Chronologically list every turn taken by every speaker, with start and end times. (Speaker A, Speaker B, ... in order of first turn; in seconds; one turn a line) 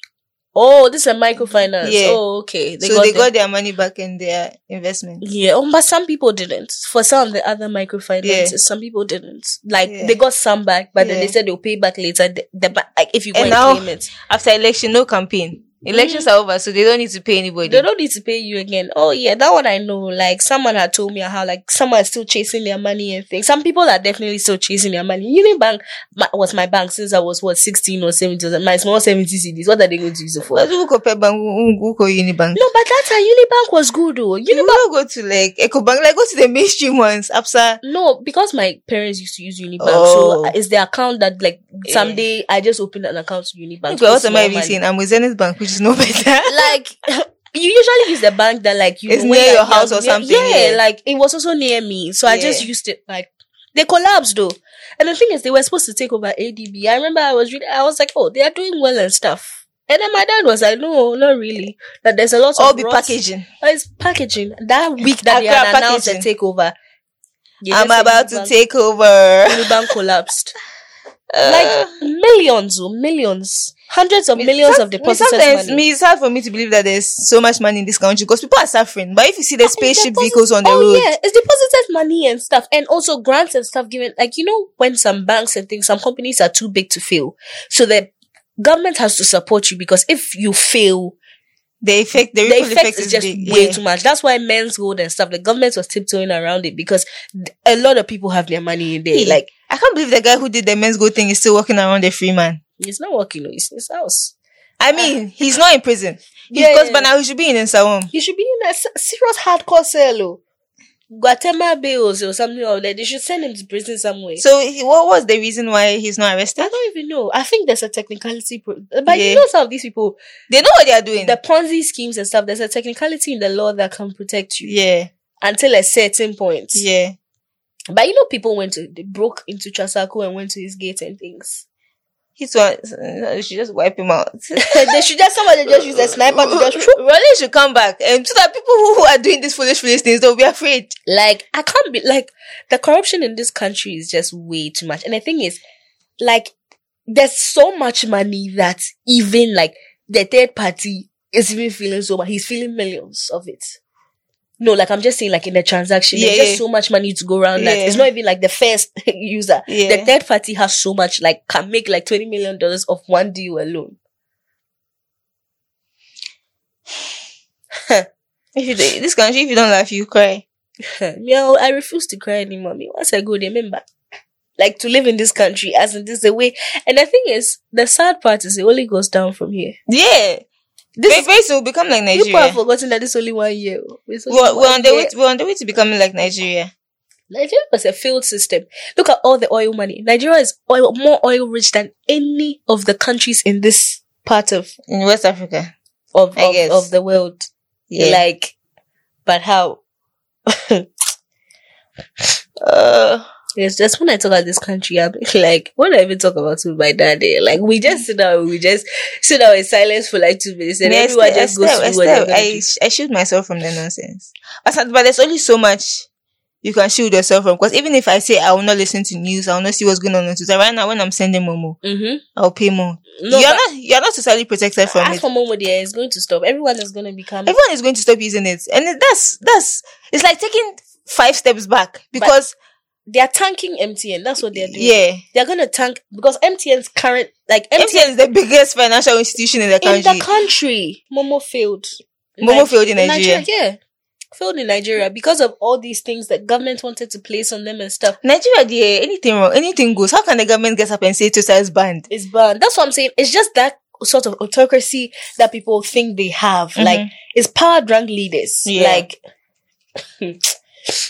Speaker A: 0.5-3.3
Speaker B: 1.8-2.2
Speaker B: 2.8-5.2
Speaker A: 5.2-14.1
Speaker B: 8.2-8.5
Speaker B: 9.8-10.2
Speaker B: 11.0-11.3
Speaker B: 13.3-17.9
Speaker A: 15.9-16.3
Speaker A: 17.6-30.7
Speaker B: 30.5-32.6
Speaker A: 32.5-34.8
Speaker B: 34.5-37.8
Speaker A: 37.8-44.8
Speaker B: 39.8-40.5
Speaker B: 41.9-42.2
Speaker B: 43.9-46.7
Speaker A: 46.5-66.7
Speaker B: 49.1-50.8
Speaker B: 52.2-52.7
Speaker B: 62.6-63.5
Speaker B: 65.0-66.2
Speaker A: 67.6-68.5
Speaker B: 67.7-69.7
Speaker A: 69.5-70.5
Speaker B: 71.3-71.9
Speaker A: 71.4-75.8
Speaker B: 74.4-81.1
Speaker A: 79.7-91.2
Speaker B: 91.8-93.8
Speaker A: 92.4-99.5
Speaker B: 99.1-102.6
Speaker A: 102.8-104.3
Speaker B: 104.8-108.1
Speaker A: 106.5-107.1
Speaker A: 108.1-110.4
Speaker A: 111.1-114.4
Speaker B: 114.4-116.8
Speaker A: 116.6-120.2
Speaker B: 119.1-119.4
Speaker B: 120.5-121.3
Speaker A: 121.2-124.7
Speaker B: 124.6-125.1
Speaker A: 125.4-126.8
Speaker B: 126.7-127.2
Speaker A: 127.9-131.6
Speaker B: 132.4-135.0
Speaker A: 134.6-137.0
Speaker B: 135.7-140.9
Speaker A: 141.1-145.6
Speaker A: 146.2-146.5
Speaker A: 147.1-153.8
Speaker A: 154.6-164.0
Speaker B: 156.1-156.6
Speaker B: 157.6-158.1
Speaker B: 159.7-160.1
Speaker B: 168.5-170.4
Speaker A: 170.8-173.8
Speaker A: 174.6-179.8
Speaker B: 179.9-180.4
Speaker B: 181.0-182.6
Speaker A: 182.1-185.1
Speaker B: 184.3-186.7
Speaker A: 187.3-194.7
Speaker B: 194.9-195.7
Speaker A: 196.1-198.5
Speaker B: 196.3-196.9
Speaker B: 197.9-198.2
Speaker A: 199.2-199.8
Speaker A: 200.5-200.9
Speaker B: 202.6-203.2
Speaker A: 203.6-212.6
Speaker B: 210.8-216.1
Speaker B: 216.6-221.8
Speaker A: 221.8-222.2
Speaker B: 222.3-225.2
Speaker A: 223.2-223.6
Speaker A: 224.9-227.6
Speaker B: 227.4-232.5
Speaker A: 233.1-238.1
Speaker B: 234.5-235.2
Speaker B: 237.8-240.2
Speaker A: 239.8-243.8
Speaker B: 242.4-243.4
Speaker A: 244.3-248.2
Speaker B: 248.2-252.1
Speaker A: 252.1-259.2
Speaker B: 256.8-257.1
Speaker B: 258.6-259.0
Speaker A: 260.2-260.9